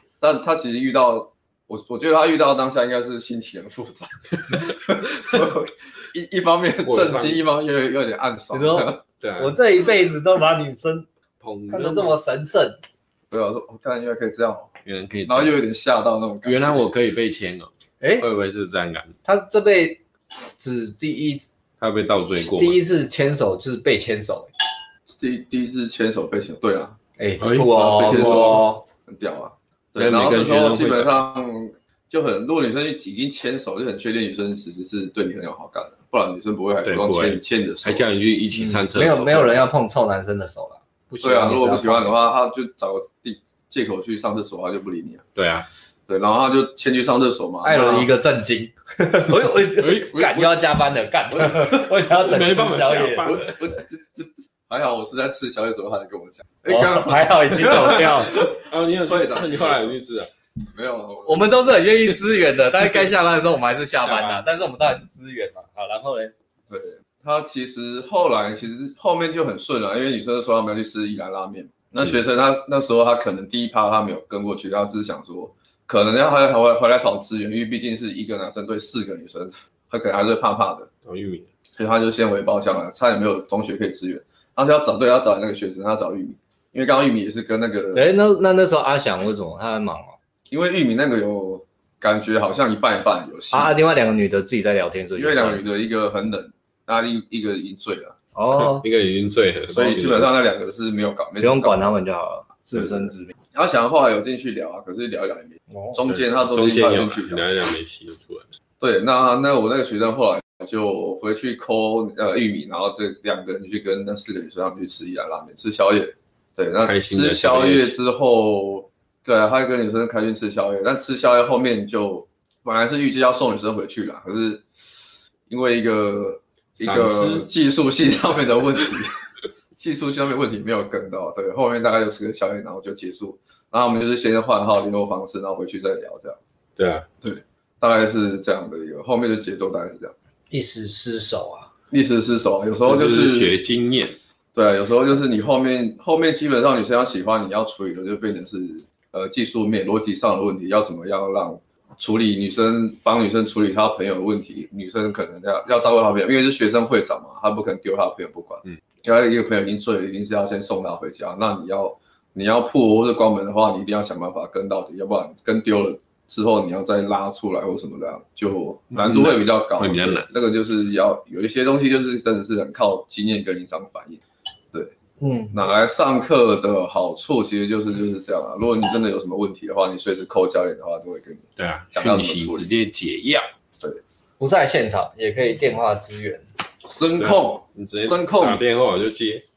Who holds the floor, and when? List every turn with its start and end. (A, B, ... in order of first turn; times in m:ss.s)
0:00.2-0:09.0 A
0:06.8-0:07.4 B
0:08.5-0:11.1 C
0:09.2-0:09.6 B
0:11.4-0:12.1 B
0:11.7-0:12.8 C
0:13.3-0:14.7 A
0:14.8-0:15.5 B
0:15.3-0:16.9 A
0:16.4-0:19.1 B
0:18.0-0:18.2 C
0:19.2-0:20.0 C
0:20.6-0:21.4 C
0:21.8-0:22.8 B
0:22.4-0:24.5 C
0:25.1-0:27.0 A
0:27.2-0:28.8 C
0:27.4-0:28.6 B
0:27.7-0:38.0 A
0:30.0-0:31.2 B
0:36.8-0:39.6 B
0:38.5-0:42.3 C
0:41.2-0:45.3 A
0:45.4-0:45.6 B
0:46.1-0:48.1 A
0:47.6-0:53.5 C
0:49.6-0:50.4 B
0:50.1-0:50.5 A
0:51.3-0:51.7 A
0:52.1-0:53.6 B
0:53.2-1:00.0 A
0:56.7-0:58.4 C
0:58.5-1:00.3 B
1:00.7-1:01.7 A
1:01.2-1:06.3 C
1:04.0-1:04.4 B
1:06.7-1:20.9 A
1:21.0-1:21.5 B
1:21.8-1:28.1 A
1:27.9-1:30.2 C
1:30.5-1:33.7 A
1:33.5-1:35.6 C
1:35.2-1:38.1 A
1:38.3-1:38.8 C
1:38.5-1:40.4 B
1:39.7-1:41.9 A
1:41.4-1:43.3 C
1:43.5-1:47.4 A
1:45.7-1:46.0 C
1:46.1-1:48.4 B
1:48.8-2:09.2 A
1:56.8-1:58.0 B
2:06.8-2:07.5 B
2:09.7-2:16.4 A
2:16.8-2:17.0 B
2:17.2-2:20.1 A
2:20.5-2:21.7 C
2:21.9-2:23.5 A
2:22.8-2:24.2 B
2:24.5-2:54.2 A
2:48.9-2:50.3 B
2:55.2-2:55.6 C
2:55.5-3:02.7 A
3:01.6-3:03.4 B
3:04.4-3:06.4 C
3:06.8-3:08.6 A
3:07.2-3:09.4 B